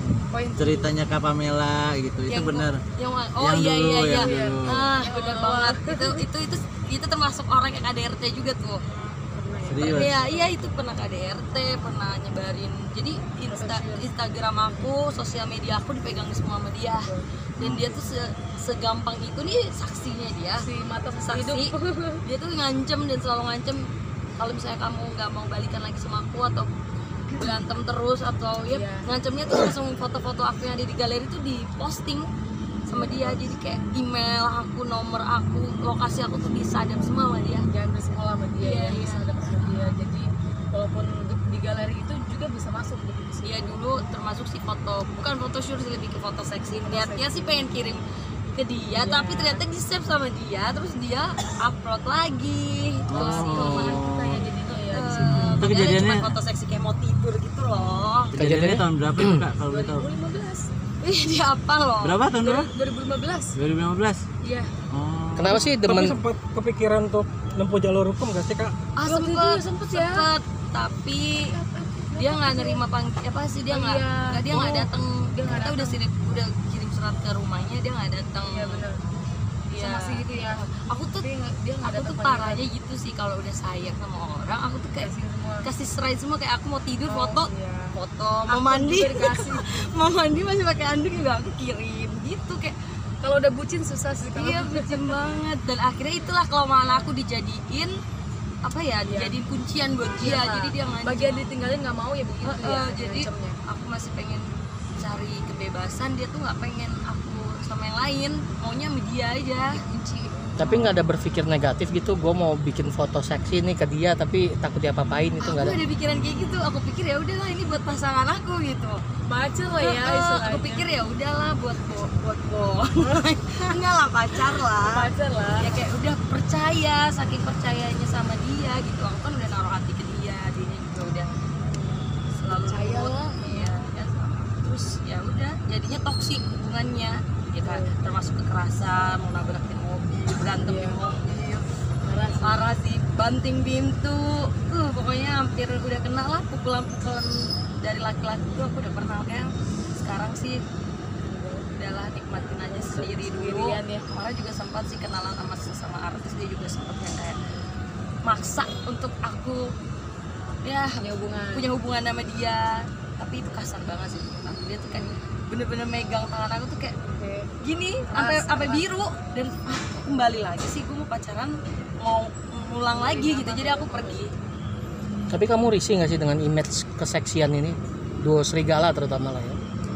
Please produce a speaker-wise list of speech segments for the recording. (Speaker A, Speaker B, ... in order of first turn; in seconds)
Speaker A: 0.3-1.0, 4.1-6.3, 8.9-10.5, 13.5-14.1, 16.9-17.2, 20.6-22.2, 28.7-29.1, 32.9-33.4, 37.7-43.8, 46.8-47.7, 48.9-49.6, 53.1-55.7, 59.7-60.7, 62.4-63.6, 64.4-64.7, 69.0-70.3, 71.3-72.8, 73.7-76.0, 78.5-79.0, 79.7-80.6, 81.2-82.7, 85.0-85.7, 87.1-88.0, 88.5-89.7, 93.2-95.2, 96.8-97.1, 99.0-99.4, 100.2-103.6, 109.9-110.3, 119.3-120.9, 124.8-125.8, 131.7-132.1, 132.7-133.7, 137.6-137.9, 140.6-141.0, 142.0-142.7, 151.2-151.7, 152.9-154.1, 161.0-161.7, 167.0-167.5, 168.1-168.9, 172.9-174.3
Speaker B: 0.6-2.8, 3.4-4.9, 9.7-10.2, 17.6-17.9, 53.1-54.4, 55.3-56.3, 58.3-60.1, 62.0-62.7, 63.5-64.2, 64.9-65.7
Speaker C: 2.3-8.9, 9.8-20.6, 21.3-21.7, 22.2-23.9, 24.4-26.7, 27.3-32.2, 32.9-37.7, 38.6-39.2, 43.4-48.0, 48.5-54.1, 54.9-58.3, 61.0-62.2, 69.0-71.5, 72.2-78.9, 79.8-81.3, 81.8-85.1, 85.7-92.8, 94.3-97.9, 98.6-101.5, 102.4-104.5, 105.0-109.8, 115.4-119.0, 119.8-131.3, 132.4-141.7, 142.4-150.6, 151.7-157.4, 158.2-159.6, 160.6-161.0, 161.5-167.0, 167.6-174.3
Speaker D: 58.4-59.4, 65.3-66.2, 110.6-115.8, 175.3-179.6
Speaker E: 65.8-68.8